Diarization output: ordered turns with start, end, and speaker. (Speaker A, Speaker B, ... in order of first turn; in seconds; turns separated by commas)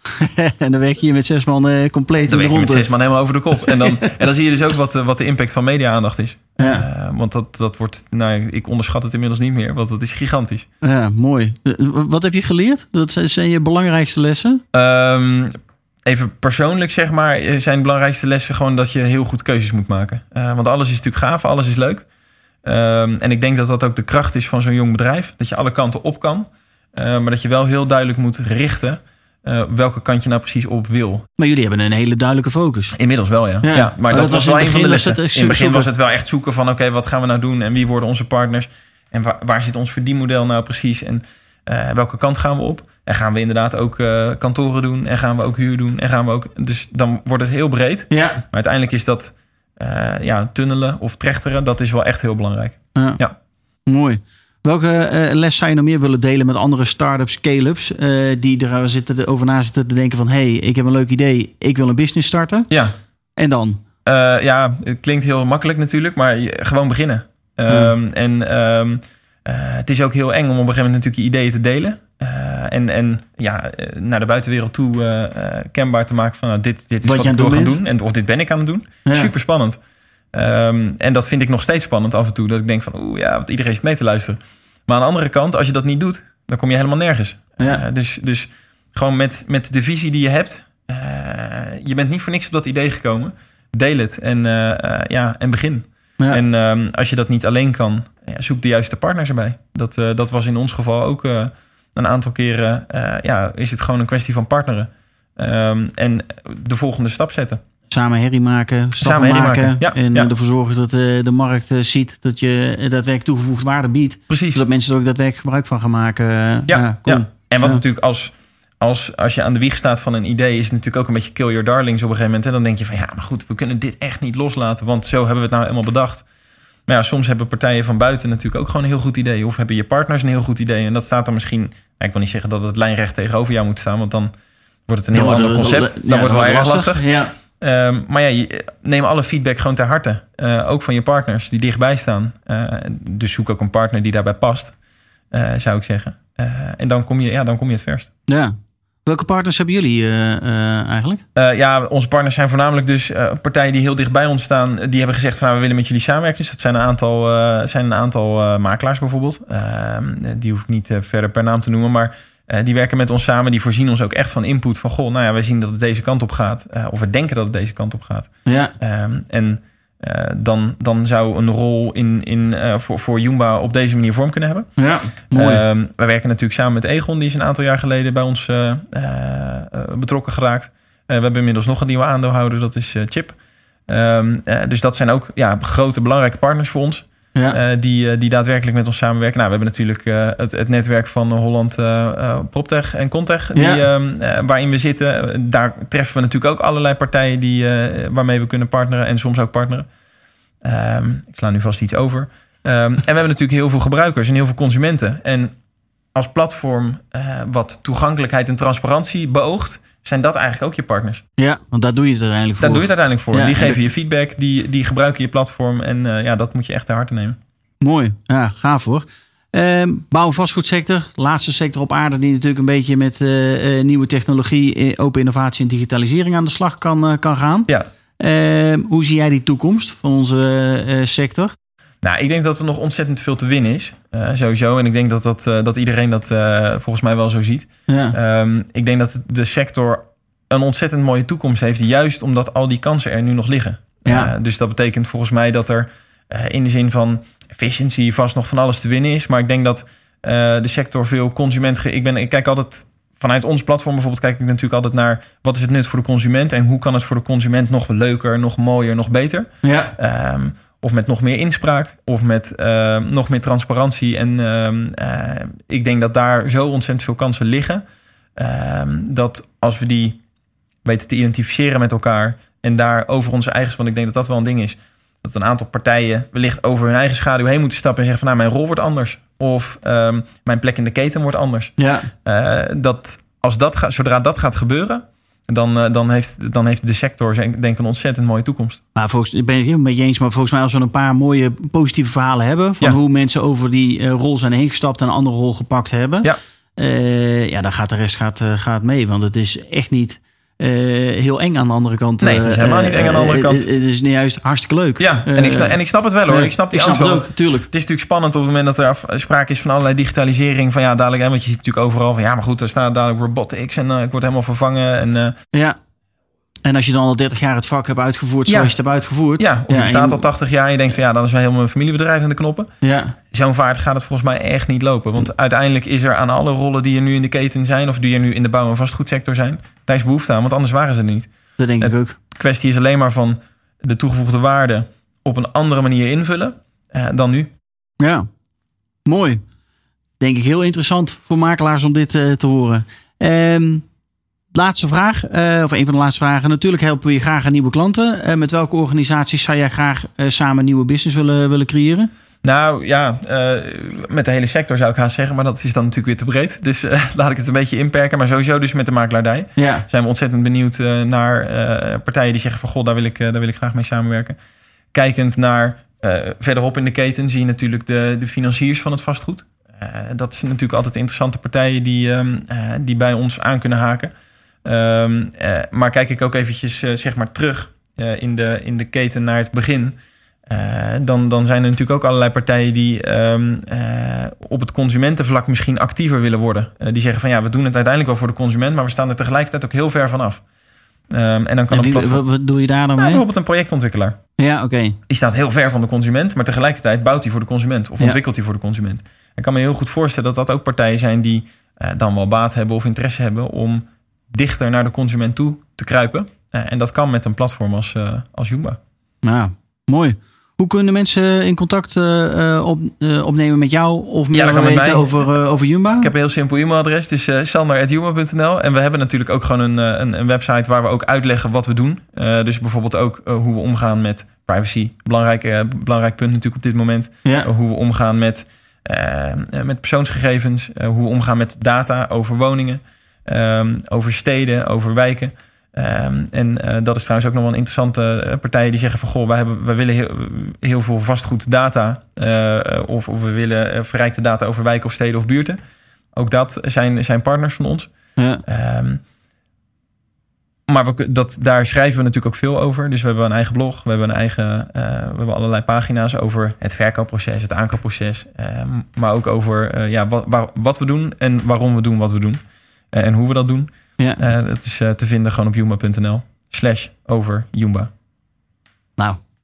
Speaker A: 0.1-2.9, Speaker B: 2.3-10.7, Speaker A: 3.6-4.0, Speaker A: 6.6-6.9, Speaker A: 10.8-14.6, Speaker B: 14.7-15.5, Speaker B: 16.1-22.1, Speaker B: 22.6-31.2, Speaker A: 31.4-33.0, Speaker B: 32.9-53.3, Speaker A: 33.6-35.9, Speaker A: 48.1-48.4, Speaker A: 53.0-53.2, Speaker A: 53.9-62.7, Speaker A: 63.4-63.8, Speaker B: 64.0-79.8, Speaker A: 67.7-67.9, Speaker A: 77.0-77.8, Speaker A: 79.0-79.3, Speaker B: 80.3-107.6, Speaker A: 107.9-117.8, Speaker B: 109.0-110.3, Speaker B: 114.3-114.6, Speaker B: 116.7-126.2, Speaker B: 126.9-134.3, Speaker B: 134.9-137.0, Speaker A: 135.1-137.3, Speaker B: 137.6-144.8, Speaker B: 145.3-148.1, Speaker A: 148.3-148.5, Speaker A: 149.1-151.2, Speaker B: 151.3-168.3, Speaker A: 168.5-168.7, Speaker B: 168.8-174.7, Speaker A: 174.8-175.6, Speaker B: 175.3-183.4, Speaker B: 183.9-199.9, Speaker A: 193.6-193.9, Speaker B: 200.6-205.5, Speaker B: 206.2-211.2, Speaker A: 211.4-213.8, Speaker B: 212.6-217.4, Speaker A: 217.8-231.5, Speaker B: 232.0-267.8, Speaker A: 237.9-238.2, Speaker A: 244.1-244.3, Speaker A: 259.6-259.9, Speaker B: 268.4-270.2, Speaker B: 270.9-281.7, Speaker A: 281.8-282.1, Speaker B: 282.2-288.8, Speaker A: 288.9-307.7, Speaker B: 302.2-303.7, Speaker B: 305.0-315.4, Speaker A: 316.6-320.3, Speaker B: 318.5-318.7, Speaker B: 319.4-322.7, Speaker A: 322.8-323.2, Speaker B: 323.3-331.3, Speaker A: 331.6-332.2, Speaker B: 331.8-337.5, Speaker A: 338.0-338.3, Speaker A: 339.1-339.4, Speaker A: 340.2-343.9, Speaker A: 344.5-352.1, Speaker B: 352.4-364.4, Speaker A: 359.6-359.9, Speaker B: 364.9-374.1, Speaker B: 374.6-379.9, Speaker B: 380.5-390.4, Speaker B: 391.1-392.2, Speaker A: 391.7-393.2, Speaker B: 393.0-394.2, Speaker A: 394.4-395.0, Speaker B: 395.1-408.8, Speaker A: 409.2-416.1, Speaker B: 414.3-415.3, Speaker B: 416.0-445.6, Speaker B: 446.1-447.9, Speaker A: 448.2-448.4, Speaker B: 448.5-449.0, Speaker B: 450.7-462.4, Speaker B: 462.9-467.9